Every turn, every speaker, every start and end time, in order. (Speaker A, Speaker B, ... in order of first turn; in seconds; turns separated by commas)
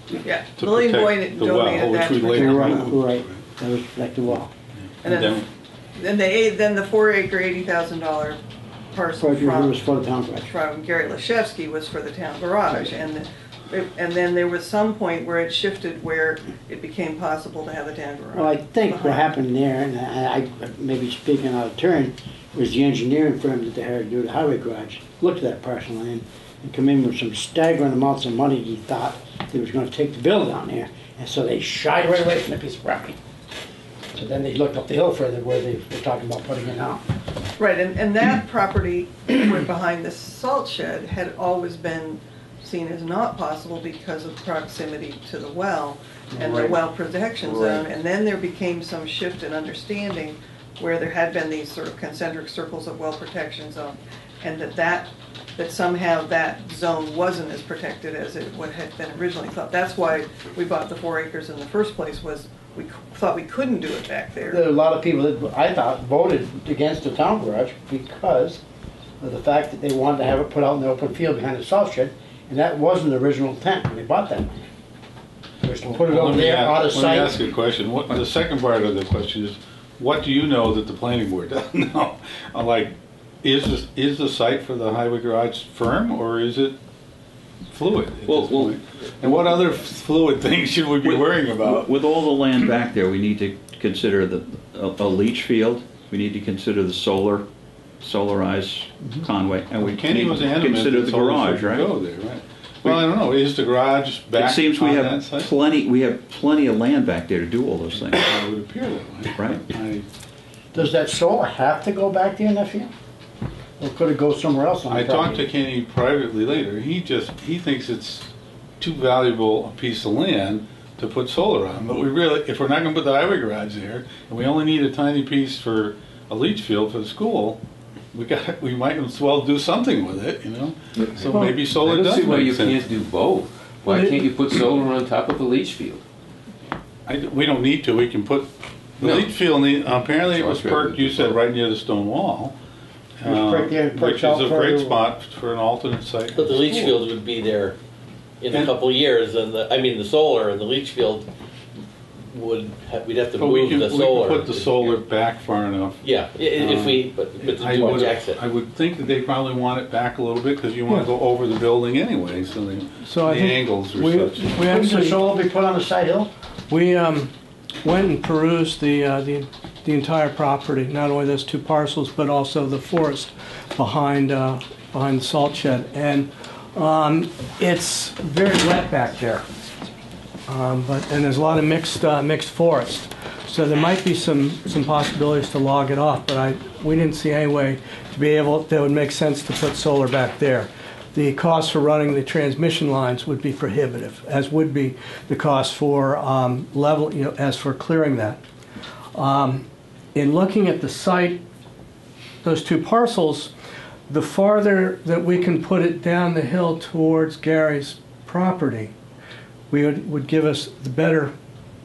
Speaker A: 0.2-2.9, Speaker B: 0.6-3.4, Speaker C: 2.2-4.5, Speaker B: 4.8-5.5, Speaker A: 5.0-5.4, Speaker A: 6.0-8.4, Speaker A: 8.9-9.8, Speaker C: 9.2-10.5, Speaker A: 10.5-19.3, Speaker C: 18.3-33.2, Speaker C: 34.1-37.0, Speaker A: 37.6-64.6, Speaker C: 46.3-46.8, Speaker C: 47.5-47.8, Speaker C: 64.5-68.6, Speaker C: 69.2-74.5, Speaker C: 75.6-77.4, Speaker B: 76.0-86.8, Speaker B: 87.7-91.9, Speaker D: 88.2-89.3, Speaker D: 91.0-97.5, Speaker D: 98.0-101.9, Speaker B: 99.8-105.5, Speaker D: 104.3-108.3, Speaker B: 108.1-110.0, Speaker D: 109.3-109.6, Speaker C: 110.7-112.9, Speaker C: 113.8-115.5, Speaker B: 114.9-127.6, Speaker B: 128.1-132.9, Speaker E: 130.9-136.0, Speaker F: 131.3-131.7, Speaker F: 133.8-134.3, Speaker B: 137.1-142.5, Speaker E: 139.0-139.4, Speaker E: 140.2-141.3, Speaker B: 143.2-147.0, Speaker C: 143.2-145.1, Speaker G: 146.3-147.8, Speaker G: 148.4-151.3, Speaker G: 152.3-155.0, Speaker B: 153.3-164.6, Speaker G: 156.0-158.4, Speaker F: 163.0-165.3, Speaker C: 164.6-166.3, Speaker F: 166.7-167.3, Speaker F: 167.8-179.5, Speaker F: 180.5-198.4, Speaker F: 199.1-201.4, Speaker F: 202.4-203.5, Speaker F: 204.1-208.9, Speaker F: 209.7-211.3